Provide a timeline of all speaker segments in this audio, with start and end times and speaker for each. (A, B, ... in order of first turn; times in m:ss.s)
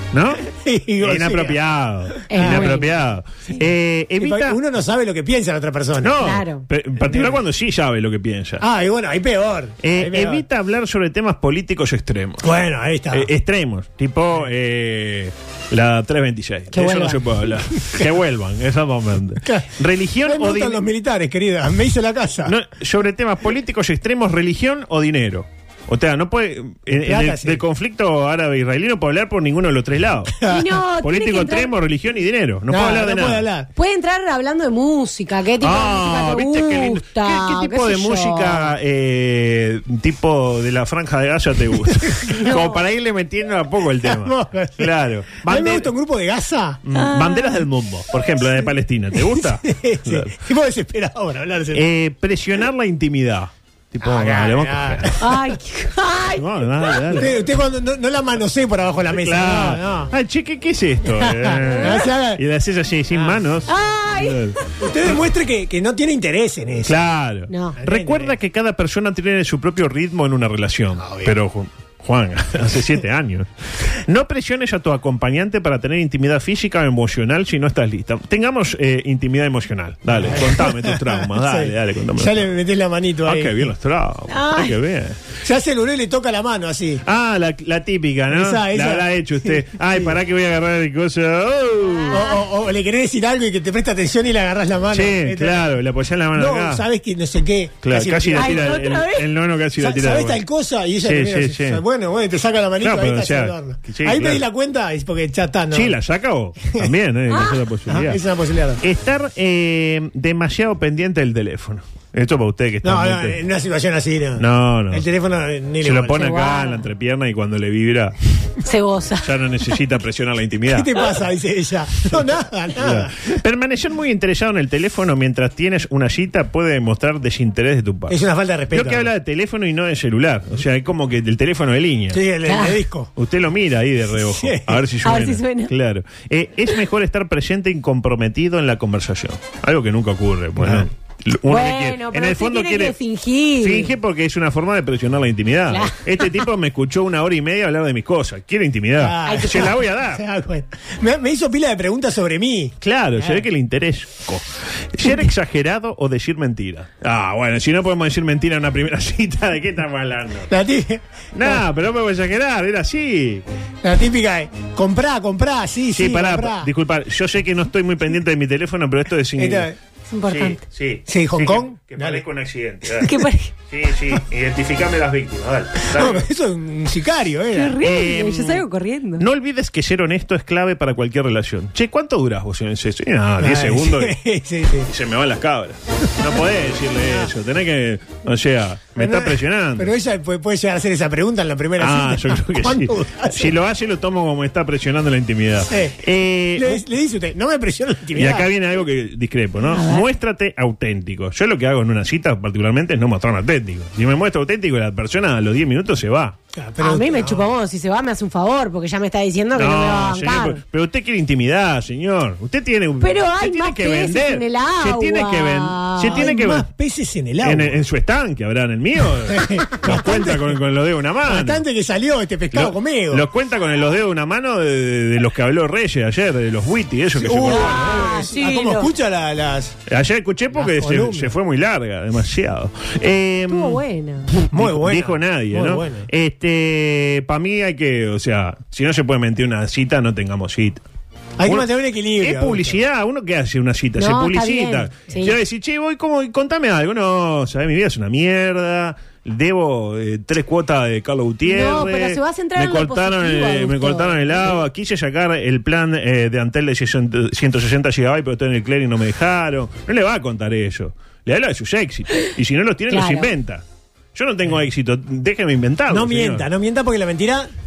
0:00.1-0:00.4 A
0:00.5-0:01.6 B
0:01.0-0:04.6 A
0:02.3-0:02.9 C
0:02.3-0:02.8 B
0:04.2-0:06.2 B
0:06.0-0:08.6 A
0:06.2-0:06.6 C
0:07.0-0:07.4 B
0:08.6-0:10.4 B
0:09.8-0:12.5 A
0:12.4-0:13.3 B
0:13.1-0:20.8 A
0:16.7-0:17.2 C
0:20.2-0:22.5 B
0:22.4-0:30.4 A
0:26.9-0:27.6 B
0:30.4-0:31.7 C
0:31.0-0:33.5 A
0:32.7-0:33.7 B
0:33.7-0:38.7 C
0:35.6-0:45.9 A
0:42.1-0:42.4 B
0:42.4-0:42.8 C
0:44.0-0:44.9 B
0:45.4-0:46.8 B
0:46.8-0:50.3 A
0:46.9-0:47.6 C
0:49.7-0:51.8 B
0:51.7-0:55.1 A
0:54.0-0:55.4 B
0:55.2-0:57.2 C
0:56.4-0:57.4 A
0:57.1-1:00.1 B
0:59.1-1:04.6 A
1:01.2-1:02.4 B
1:01.7-1:02.0 C
1:03.1-1:03.4 B
1:03.7-1:04.7 C
1:04.8-1:06.9 B
1:06.8-1:22.5 A
1:07.5-1:07.8 C
1:07.8-1:08.3 B
1:11.0-1:11.3 B
1:20.1-1:23.7 B
1:23.2-1:25.2 A
1:24.3-1:24.7 C
1:25.4-1:27.0 B
1:27.0-1:32.2 A
1:28.3-1:30.1 B
1:31.8-1:32.4 C
1:32.1-1:35.6 B
1:34.9-1:36.8 A
1:36.3-1:38.7 B
1:37.8-1:40.4 A
1:38.3-1:39.3 C
1:39.8-1:45.9 B
1:41.0-1:41.8 A
1:42.8-1:44.4 A
1:45.7-1:48.2 A
1:47.9-1:48.8 B
1:48.8-1:53.4 A
1:52.8-1:56.2 B
1:54.4-1:55.0 A
1:55.8-1:58.1 A
1:56.2-1:56.8 C
1:58.6-1:59.3 C
1:59.2-2:01.2 A
2:00.7-2:03.1 B
2:02.1-2:08.2 A
2:08.1-2:09.1 B
2:08.7-2:12.2 A
2:12.1-2:13.1 B
2:12.4-2:12.8 C
2:13.2-2:23.0 A
2:14.2-2:14.8 B
2:15.0-2:15.7 C
2:20.6-2:20.9 B
2:21.5-2:23.9 C
2:23.6-2:30.2 A
2:25.7-2:26.4 C
2:29.0-2:33.4 B
2:29.2-2:29.7 C
2:32.8-2:40.5 A
2:40.5-2:41.6 B
2:41.3-2:43.4 A
2:43.8-2:46.7 B
2:45.9-2:49.7 A
2:49.4-2:49.7 B
2:50.1-2:50.6 C
2:50.3-2:53.1 A
2:51.1-2:52.2 B
2:53.0-2:53.5 C
2:53.7-2:56.2 A
2:55.9-2:57.8 B
2:57.5-2:59.2 C
2:57.8-2:58.6 A
2:59.2-3:04.2 A
3:03.4-3:04.9 B
3:04.8-3:09.9 A
3:09.0-3:13.5 B
3:11.8-3:16.8 A
3:15.7-3:16.0 B
3:16.6-3:18.5 B
3:18.2-3:26.4 A
3:19.6-3:20.0 C
3:26.5-3:27.4 B
3:26.8-3:30.6 C
3:29.5-3:36.7 A
3:33.0-3:36.2 C
3:36.1-3:37.8 B
3:37.4-3:41.6 A
3:39.3-3:40.5 B
3:41.3-3:43.2 B
3:42.5-3:48.0 A
3:47.1-3:49.8 B
3:47.5-3:48.9 C
3:49.9-3:53.8 A
3:50.6-3:51.3 B
3:53.5-3:54.3 C
3:54.3-4:00.8 A
3:54.5-3:56.0 B
4:01.4-4:02.8 B
4:01.4-4:23.6 A
4:04.0-4:05.4 C
4:11.4-4:14.5 C
4:22.9-4:23.3 C
4:24.1-4:26.4 A
4:25.9-4:27.5 B